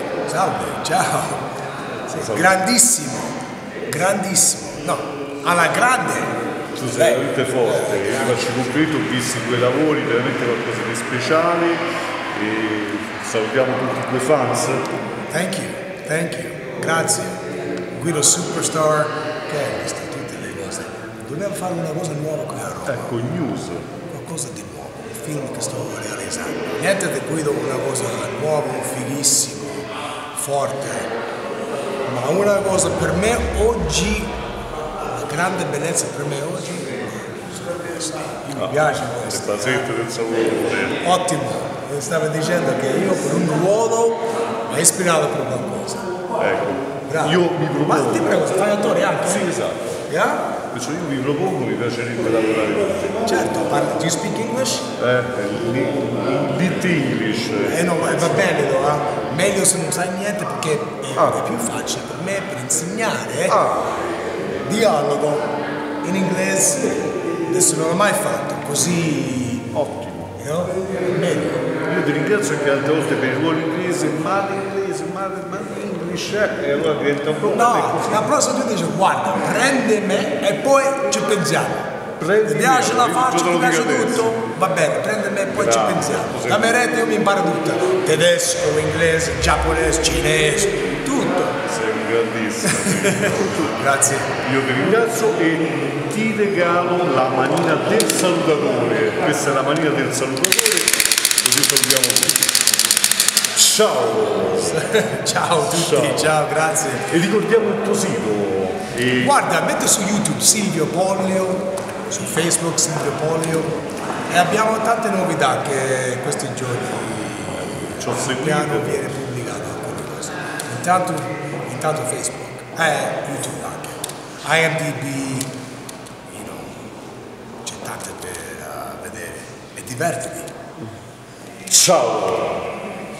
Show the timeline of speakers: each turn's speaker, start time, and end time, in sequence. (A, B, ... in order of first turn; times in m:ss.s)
0:00.2-0:01.5 A
0:02.1-0:02.5 B
0:02.1-0:06.3 A
0:06.7-0:14.9 B
0:06.9-0:08.4 A
0:15.3-0:17.4 A
0:17.9-0:23.1 A
0:22.9-0:23.9 B
0:24.1-0:31.1 A
0:32.0-0:34.4 A
0:35.0-0:39.9 A
0:38.5-0:41.1 B
0:41.0-0:46.0 A
0:46.4-0:48.6 B
0:47.1-0:49.5 A
0:49.2-0:50.0 B
0:50.1-0:50.5 A
0:50.7-0:53.4 B
0:53.2-0:54.9 A
0:55.0-0:58.5 B
0:57.6-1:03.6 A
1:01.2-1:01.4 B
1:03.5-1:04.0 B
1:04.6-1:05.5 A
1:06.0-1:09.7 A
1:09.7-1:10.3 B
1:10.4-1:11.6 A
1:11.8-1:18.3 B
1:17.4-1:21.8 A
1:22.2-1:24.4 B
1:22.4-1:31.6 A
1:25.5-1:26.7 B
1:31.6-1:33.8 B
1:32.6-1:34.3 A
1:34.3-1:42.5 B
1:43.5-1:44.8 B
1:44.6-1:47.1 A
1:45.5-1:46.3 B
1:47.1-1:49.4 B
1:49.2-1:53.7 A
1:54.3-2:05.5 A
1:57.6-1:59.1 B
2:06.3-2:06.8 A
2:07.6-2:10.5 A
2:11.7-2:12.7 B